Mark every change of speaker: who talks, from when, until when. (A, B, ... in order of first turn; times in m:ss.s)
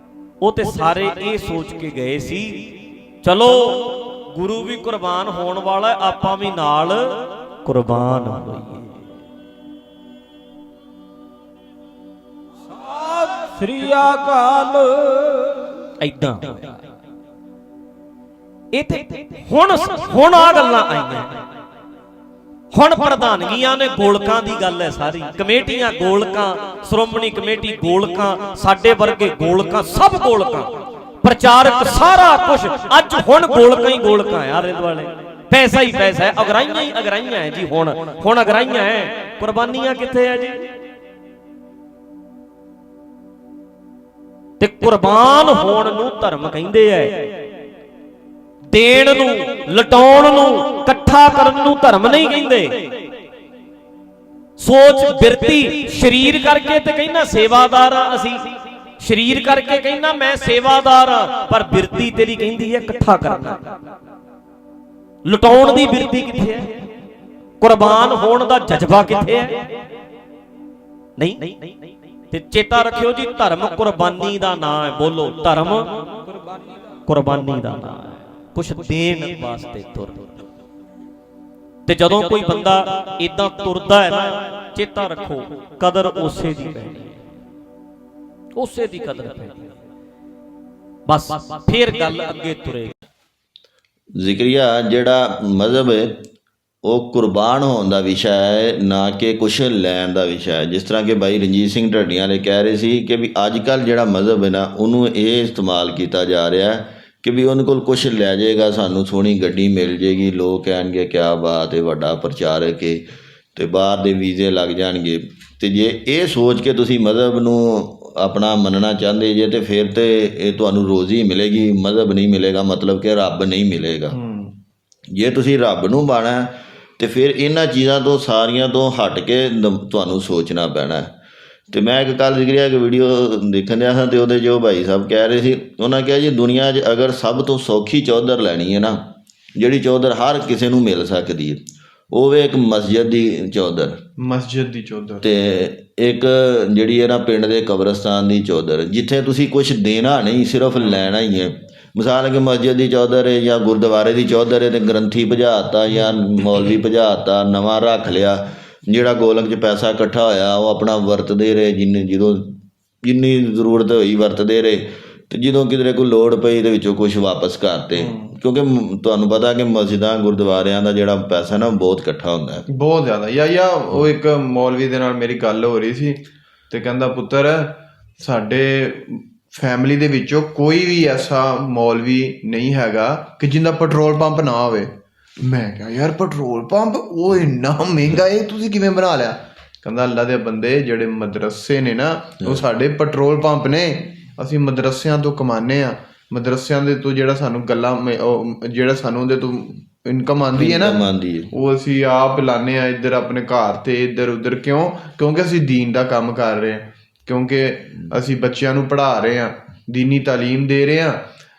0:00.4-0:09.0 A
0:13.0-0:15.5 B
0:16.0-0:16.7 A
0:18.7-0:21.4 A
0:22.7-0:30.7 A
0:31.2-0:40.6 A
0:44.6-0:47.3 A
0:48.7-0:52.9 A
0:54.6-1:03.6 A
1:05.2-1:06.8 A
1:07.6-1:09.6 A
1:11.2-1:11.8 A
1:12.3-1:16.0 A
1:17.1-1:20.3 A
1:21.9-1:27.2 A
1:28.6-1:29.7 A
1:31.1-1:32.9 A
1:34.2-1:36.2 C
1:36.8-1:53.0 C
1:53.6-2:04.2 C
2:04.1-2:04.6 D
2:05.1-2:11.1 C
2:11.7-2:19.0 C
2:19.6-2:24.0 C
2:24.2-2:25.3 D
2:25.2-2:52.6 C
2:47.9-2:48.3 D
2:52.7-3:31.2 D
3:20.5-3:21.5 C